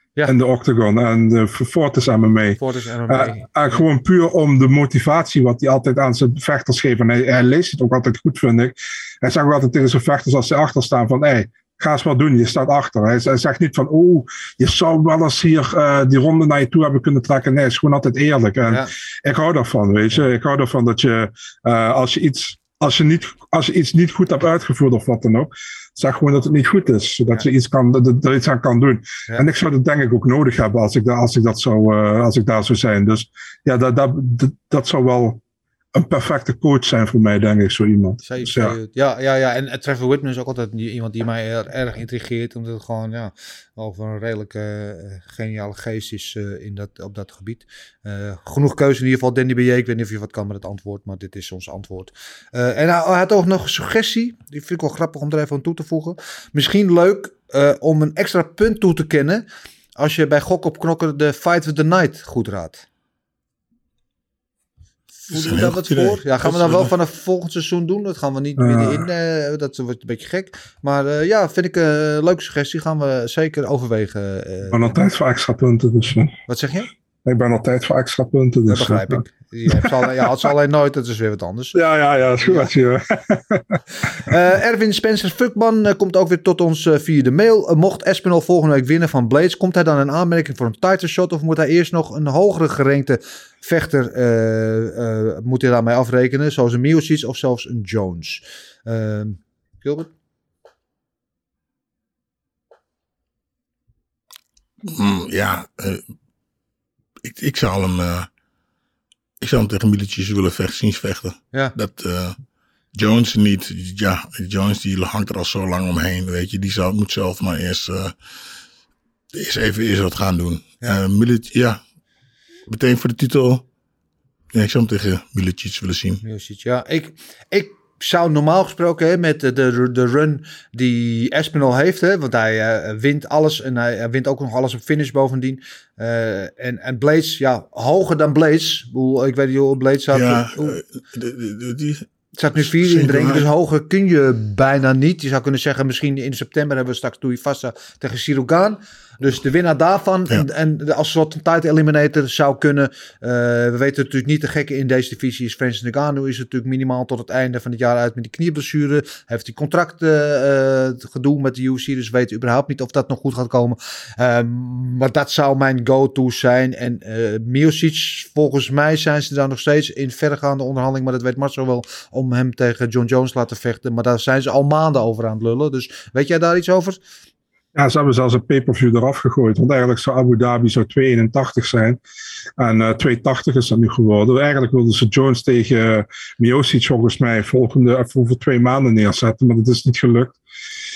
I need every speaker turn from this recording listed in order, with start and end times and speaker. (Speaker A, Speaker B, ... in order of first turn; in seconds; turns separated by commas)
Speaker A: 0.2-35.4, Speaker B: 2.6-3.8, Speaker A: 35.9-38.8, Speaker B: 38.2-59.4, Speaker B: 60.0-62.8, Speaker B: 65.2-75.0, Speaker C: 65.3-66.9, Speaker A: 68.6-69.0, Speaker A: 74.7-76.4, Speaker B: 76.5-76.9, Speaker A: 77.2-79.2, Speaker B: 78.7-81.8, Speaker A: 79.7-80.1, Speaker A: 81.7-83.8, Speaker B: 82.4-82.7, Speaker B: 84.2-100.1, Speaker C: 104.8-106.0, Speaker C: 107.2-108.3, Speaker C: 109.4-112.3, Speaker C: 112.9-118.1, Speaker C: 119.3-121.8, Speaker C: 122.7-123.6, Speaker C: 124.5-126.2, Speaker B: 126.2-140.8, Speaker C: 140.1-143.5, Speaker B: 142.3-177.0, Speaker A: 177.7-182.0, Speaker A: 182.6-190.4